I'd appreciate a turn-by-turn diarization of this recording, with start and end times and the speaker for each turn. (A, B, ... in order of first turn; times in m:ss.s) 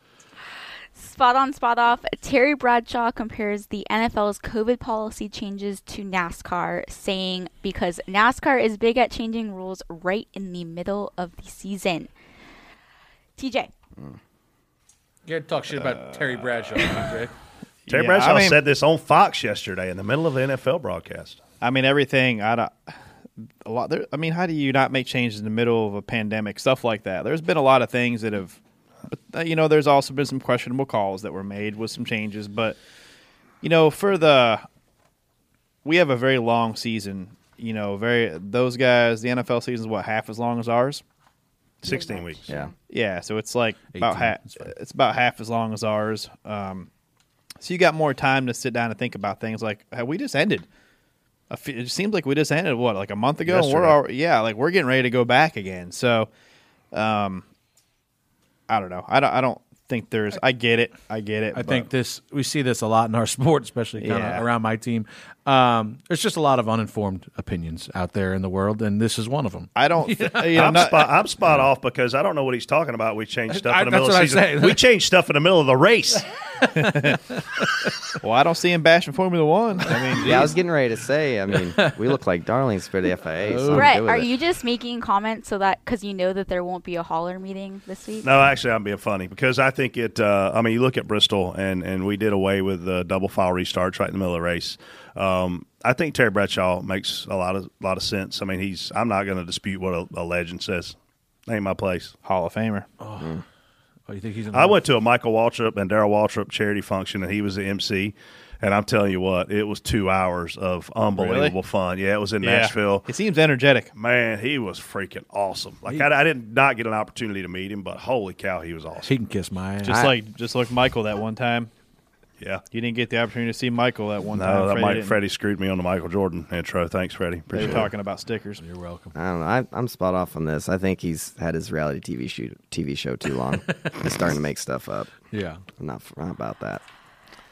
0:01.0-0:12.1 A
0:13.4-0:13.7 A
0:15.3-0:17.3 B
0:15.8-0:16.1 C
0:17.9-0:18.6 C
0:17.9-0:21.4 D
0:21.6-0:22.9 C
0:23.6-0:28.6 C
0:29.1-0:32.8 C
0:33.6-0:34.6 C
0:35.8-0:41.0 C
0:41.8-0:42.5 D
0:41.9-0:42.6 A
0:42.9-0:46.9 C
0:43.9-0:44.7 B
0:47.6-0:50.7 C
0:51.5-0:56.3 C
0:53.4-0:54.0 D
0:56.9-0:57.4 C
0:58.7-1:01.9 C
1:01.5-1:11.0 B
1:04.0-1:04.4 C
1:09.8-1:11.1 C
1:10.6-1:16.2 D
1:13.5-1:14.8 B
1:16.6-1:17.9 B
1:16.8-1:17.2 C
1:18.2-1:20.5 C
1:19.9-1:20.3 B
1:20.2-1:24.3 E
1:21.5-1:22.2 B
1:23.4-1:24.0 B
1:23.7-1:28.3 A
1:28.2-1:41.0 D
1:41.5-1:42.2 D
1:42.2-1:42.8 C
1:43.0-1:43.4 B
1:44.1-1:44.8 B
1:44.5-1:53.1 D
1:51.1-1:51.6 C
1:52.4-1:53.9 C
1:53.9-1:59.1 D
1:59.0-2:00.0 B
1:59.8-2:01.7 C
1:59.9-2:00.1 E
2:02.4-2:02.6 D
2:02.7-2:05.2 C
2:04.4-2:07.9 D
2:07.5-2:08.6 C
2:08.6-2:09.1 B
2:09.1-2:15.1 E
2:15.3-2:15.6 B
2:15.8-2:16.8 E